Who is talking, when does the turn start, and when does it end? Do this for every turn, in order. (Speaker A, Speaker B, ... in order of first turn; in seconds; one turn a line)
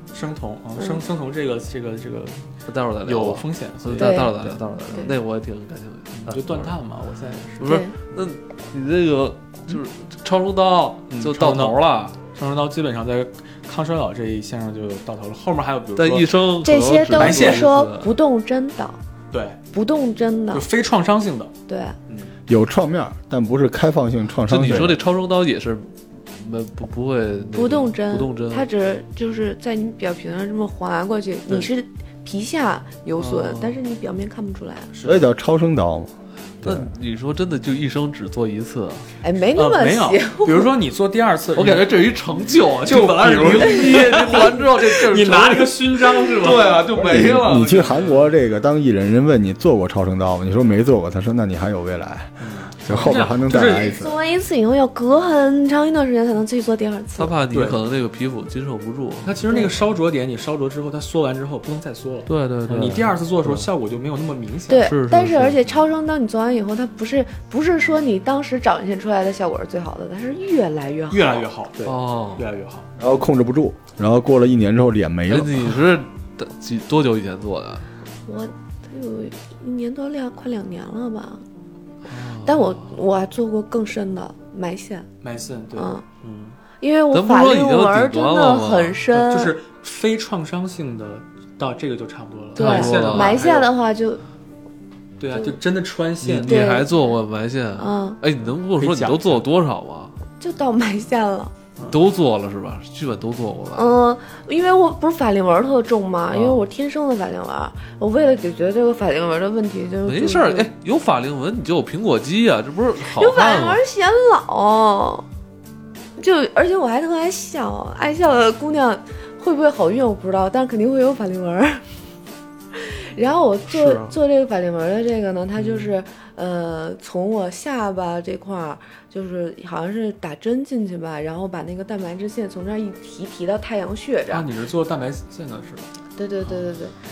Speaker A: 0.1-2.5
Speaker B: 2.7-6.8
Speaker A: 3.0-4.6
Speaker C: 4.0-4.4
Speaker A: 6.2-7.7
Speaker B: 7.6-12.2
Speaker C: 7.6-8.0
Speaker A: 11.1-16.4
Speaker B: 16.0-18.1
Speaker C: 16.6-19.0
Speaker A: 17.1-17.7
Speaker A: 19.3-19.6
Speaker C: 19.7-20.7
Speaker A: 20.5-21.5
Speaker C: 21.7-22.0
Speaker A: 22.1-22.4
Speaker D: 22.5-25.0
Speaker B: 24.4-28.7
Speaker C: 27.5-34.9
Speaker B: 33.1-33.8
Speaker A: 34.9-35.3
Speaker D: 35.0-36.1
Speaker B: 36.6-39.0
Speaker D: 36.6-36.9
Speaker C: 39.2-40.7
Speaker A: 39.5-41.9
Speaker B: 41.5-47.9
Speaker A: 42.9-46.9
Speaker C: 43.9-44.5
Speaker D: 46.9-54.2
Speaker A: 47.8-48.3
Speaker A: 52.4-53.9
Speaker C: 53.5-57.3
Speaker B: 57.2-59.4
Speaker A: 57.5-57.8
Speaker A: 59.2-64.9
Speaker B: 62.3-63.6
Speaker C: 64.7-71.5
Speaker B: 64.8-65.7
Speaker A: 71.1-72.9
Speaker B: 71.8-72.5
Speaker D: 73.0-75.8
Speaker B: 75.3-77.8
Speaker C: 78.2-81.4
Speaker B: 82.1-82.8
Speaker C: 82.3-85.1
Speaker A: 85.2-86.6
Speaker C: 85.8-86.0
Speaker C: 86.8-89.6
Speaker B: 87.1-89.0
Speaker A: 89.1-93.7
Speaker B: 92.6-93.5
Speaker C: 92.6-94.2
Speaker A: 95.2-96.6
Speaker B: 96.2-100.1
Speaker C: 96.4-97.1
Speaker C: 97.8-98.2
Speaker A: 98.8-99.5
Speaker C: 100.4-101.5
Speaker B: 101.9-103.9
Speaker C: 103.7-110.7
Speaker B: 106.3-106.6
Speaker B: 110.0-113.8
Speaker C: 113.0-115.2
Speaker C: 116.2-121.8
Speaker C: 122.7-134.5
Speaker A: 125.6-125.9
Speaker A: 134.3-135.9
Speaker C: 136.2-137.0